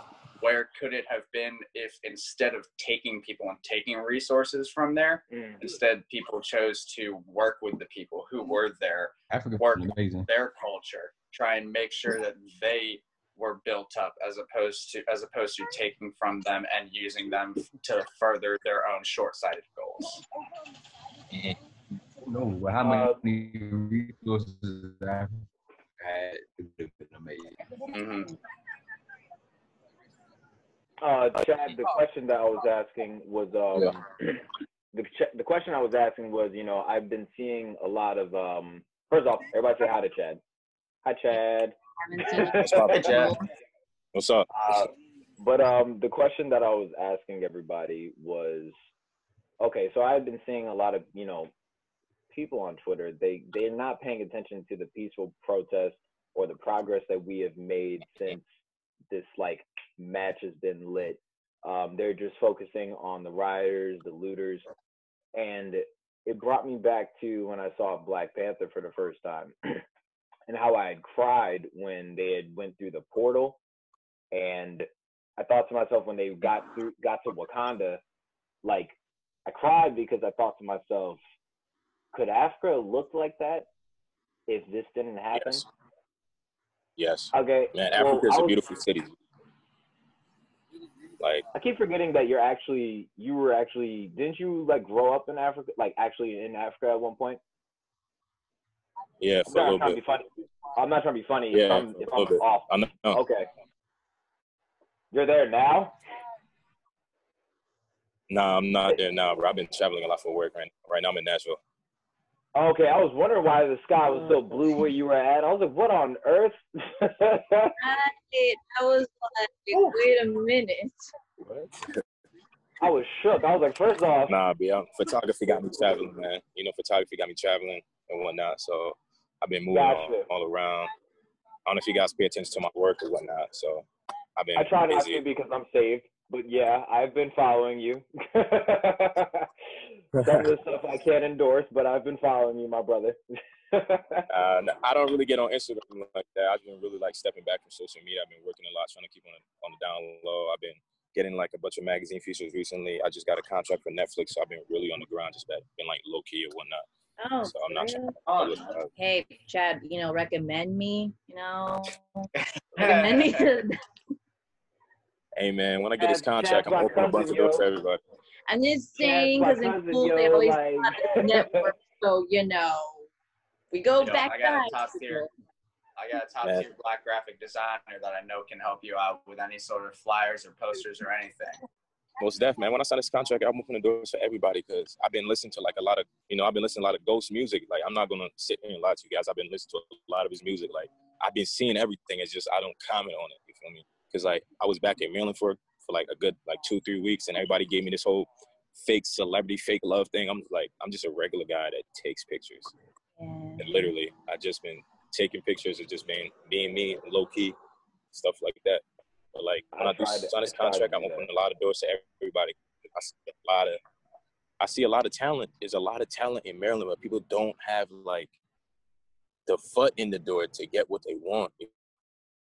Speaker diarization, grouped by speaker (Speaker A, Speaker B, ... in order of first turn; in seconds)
Speaker A: 0.4-20.2, 27.9-28.3, 42.9-43.4, 44.5-44.9, 158.3-158.7, 162.8-163.4, 174.0-175.3, 176.0-181.6
Speaker B: 5.3-5.6, 22.8-23.2, 31.0-40.4, 41.0-41.8, 42.3-43.2, 45.4-48.8, 49.6-51.5, 52.3-58.5, 59.1-64.7, 65.3-69.8, 70.5-73.6, 74.3-78.0, 78.6-79.0, 79.5-81.2, 82.1-83.7, 84.5-85.6, 87.3-88.7, 91.5-97.4, 99.5-103.5, 105.1-106.0, 112.5-117.8, 122.8-124.3, 129.7-130.3, 134.6-139.5, 140.2-143.2, 143.7-144.3, 166.0-167.7, 169.0-171.7, 209.7-211.3
Speaker C: 9.3-10.3, 22.2-25.4, 26.0-27.6
Speaker D: 21.3-21.6, 42.5-43.4, 44.1-44.9, 85.3-85.7, 87.0-89.1, 91.2-91.5, 99.2-100.0, 101.5-103.2, 108.3-111.6, 124.3-130.9, 131.7-133.9, 134.4-135.2, 144.3-156.9, 157.4-158.9, 165.3-168.0, 176.4-176.7, 182.2-202.7, 203.6-207.6, 208.1-208.8, 209.3-213.8, 214.6-218.3, 219.5-221.7
Speaker E: 42.0-43.4, 117.8-121.1, 157.2-158.2, 159.0-163.8, 168.5-173.1, 173.7-175.3, 203.2-203.9